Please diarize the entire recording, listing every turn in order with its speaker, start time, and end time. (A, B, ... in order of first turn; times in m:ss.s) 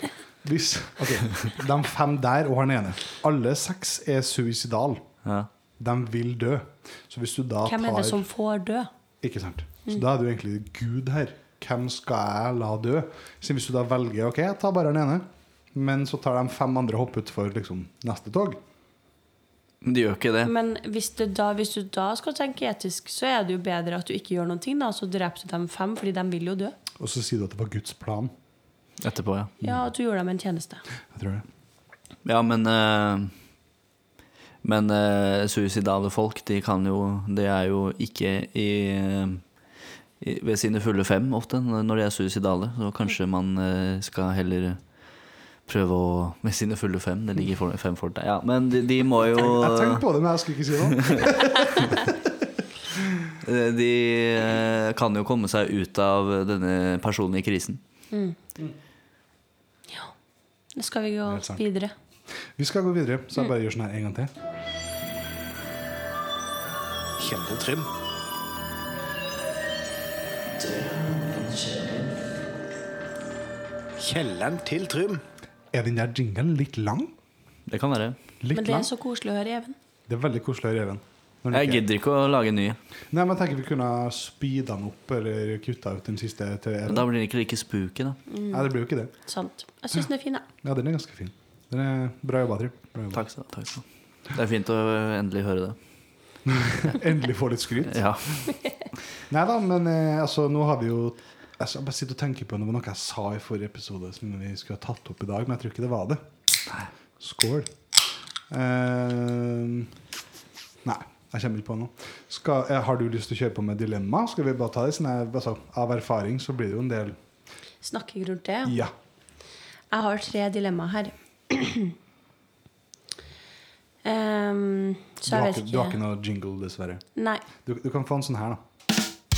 0:00.4-0:05.0 A
0:05.8-0:08.2 A
0:07.6-0:08.9 B
0:09.2-0:18.6 A
0:19.8-0:20.5 C
0:20.4-0:26.8 B
0:27.0-0:28.3 A
0:29.0-0:29.5 C
0:29.6-0:30.8 B
0:31.1-0:31.4 A
0:32.2-0:33.3 C
0:34.6-0:39.4 C
0:40.2-0:44.8 C
0:45.7-0:50.0 C
0:49.2-0:52.3 A
0:50.9-0:51.3 C
0:52.9-0:53.3 A
0:53.4-0:57.8 C
0:58.1-0:58.4 B
1:00.8-1:01.9 B
1:01.3-1:01.6 A
1:02.6-1:04.3 A
1:07.2-1:07.9 D
1:10.6-1:12.2 C
1:14.0-1:15.2 D
1:15.7-1:17.1 A
1:17.7-1:18.2 C
1:18.4-1:18.9 A
1:18.5-1:19.8 B
1:20.1-1:21.8 A
1:21.5-1:22.8 C
1:23.1-1:27.1 A
1:26.9-1:28.2 C
1:28.3-1:28.7 B
1:28.5-1:29.1 A
1:29.2-1:30.5 B
1:30.6-1:33.2 A
1:33.1-1:35.8 C
1:36.4-1:38.1 A
1:37.9-1:38.5 C
1:39.3-1:46.2 A
1:47.2-1:47.7 A
1:48.5-1:49.9 A
1:50.8-1:57.2 A
1:57.8-1:58.8 B
1:58.6-1:58.9 A
1:59.9-2:02.0 B
2:04.0-2:06.0 B
2:05.3-2:07.0 A
2:07.2-2:07.4 B
2:07.6-2:08.6 A